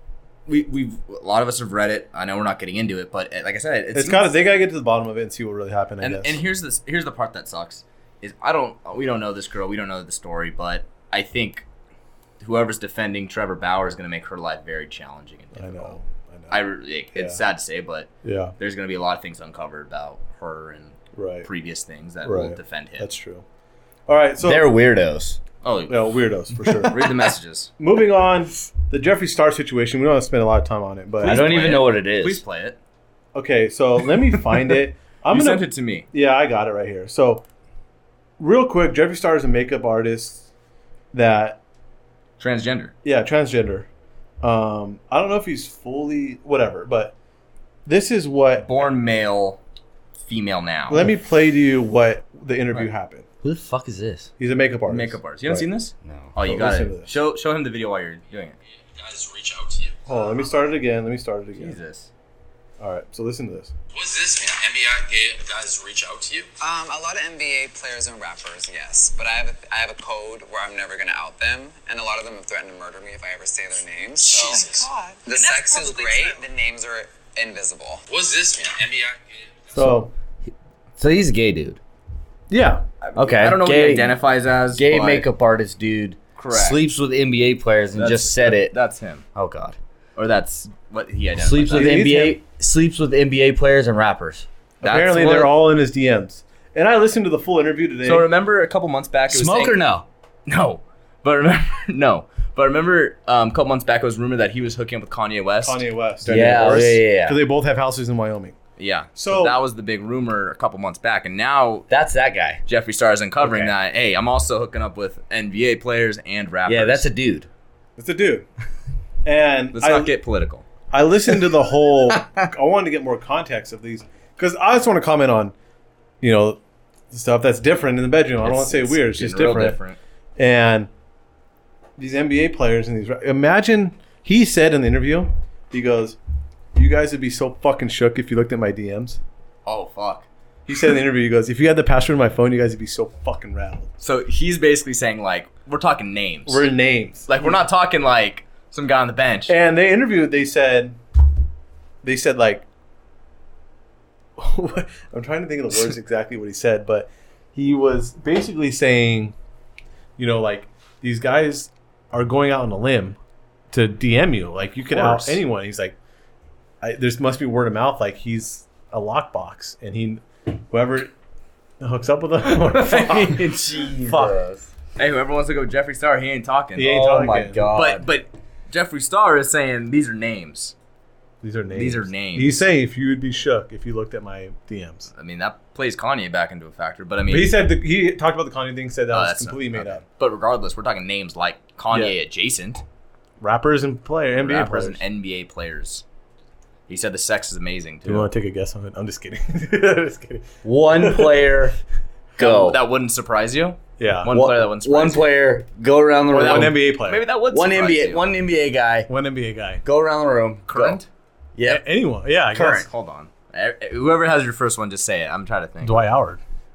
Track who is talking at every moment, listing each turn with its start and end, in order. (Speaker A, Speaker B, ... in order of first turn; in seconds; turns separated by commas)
Speaker A: 0.5-4.3, Speaker B: 3.9-6.4, Speaker A: 6.0-11.6, Speaker A: 12.4-16.0, Speaker B: 15.5-16.6, Speaker A: 16.5-23.1, Speaker B: 17.1-17.4, Speaker B: 18.2-18.5, Speaker B: 21.1-21.5, Speaker B: 22.2-23.4, Speaker B: 24.1-24.7, Speaker C: 24.4-25.4, Speaker A: 25.6-26.0, Speaker B: 25.9-31.6, Speaker A: 26.6-27.7, Speaker A: 31.2-32.8, Speaker C: 31.2-32.4, Speaker B: 33.3-37.4, Speaker A: 34.3-34.8, Speaker A: 35.3-36.0, Speaker B: 38.4-40.5, Speaker B: 41.1-41.6, Speaker A: 42.4-42.9, Speaker B: 43.0-43.9, Speaker B: 44.4-47.1, Speaker B: 47.9-48.7, Speaker A: 48.6-49.6, Speaker A: 50.2-51.1, Speaker B: 50.9-53.2, Speaker C: 53.4-54.3, Speaker B: 54.4-55.7, Speaker A: 54.9-58.6, Speaker C: 56.0-56.3, Speaker B: 56.4-57.1, Speaker D: 59.0-59.9, Speaker B: 60.0-61.8, Speaker A: 61.5-62.1, Speaker B: 62.8-63.7, Speaker D: 63.9-66.5, Speaker E: 66.6-78.0, Speaker D: 74.2-76.4, Speaker D: 78.1-79.8, Speaker B: 79.7-80.1, Speaker C: 81.0-81.8, Speaker B: 82.5-82.8, Speaker A: 83.0-85.3, Speaker C: 83.2-84.2, Speaker C: 84.7-88.7, Speaker A: 86.3-86.8, Speaker A: 87.9-89.2, Speaker C: 89.3-89.8, Speaker A: 90.2-92.0, Speaker C: 91.4-94.5, Speaker B: 91.7-92.4, Speaker A: 94.8-95.5, Speaker B: 94.8-98.3, Speaker A: 98.0-99.8, Speaker C: 99.3-100.0, Speaker A: 100.5-106.9, Speaker B: 105.6-108.5, Speaker C: 106.2-107.4, Speaker A: 108.8-111.9, Speaker B: 109.1-109.6, Speaker C: 111.9-112.6, Speaker A: 112.7-117.1, Speaker C: 113.4-113.7, Speaker C: 116.7-117.5, Speaker B: 118.0-118.5, Speaker B: 119.2-120.1, Speaker A: 119.7-120.7, Speaker B: 120.9-125.5, Speaker B: 126.2-126.6, Speaker B: 127.1-129.8, Speaker A: 128.4-130.0, Speaker B: 130.4-130.9, Speaker B: 132.0-136.2, Speaker B: 136.7-139.2, Speaker A: 139.7-140.3, Speaker B: 140.7-143.9, Speaker A: 144.0-146.6, Speaker B: 146.5-147.6, Speaker A: 147.3-149.5, Speaker B: 149.5-151.0, Speaker B: 152.0-152.7, Speaker B: 154.4-159.3, Speaker B: 160.2-163.2, Speaker B: 163.7-165.9, Speaker A: 165.0-165.4, Speaker B: 166.8-171.1, Speaker B: 171.8-173.4, Speaker A: 172.6-173.7, Speaker C: 173.3-174.7, Speaker B: 174.0-174.4, Speaker A: 174.9-177.0, Speaker B: 176.8-177.6, Speaker C: 176.8-178.1, Speaker A: 177.7-180.7, Speaker B: 181.4-185.1, Speaker A: 181.7-182.7, Speaker A: 185.1-187.6, Speaker B: 187.3-190.0, Speaker A: 189.1-192.8, Speaker B: 191.9-192.2, Speaker B: 193.4-195.0, Speaker A: 194.3-196.0, Speaker A: 196.9-198.3, Speaker B: 198.1-201.4, Speaker C: 200.6-201.8, Speaker C: 202.4-202.8, Speaker A: 202.4-205.3, Speaker B: 204.0-204.3, Speaker C: 204.3-206.8, Speaker B: 206.3-207.2, Speaker A: 206.3-208.3, Speaker C: 207.5-209.1, Speaker B: 209.1-209.8, Speaker C: 209.8-211.0, Speaker A: 210.7-211.0, Speaker C: 211.5-211.8, Speaker B: 211.7-212.8, Speaker C: 212.5-212.9, Speaker A: 212.6-216.0, Speaker B: 215.8-216.4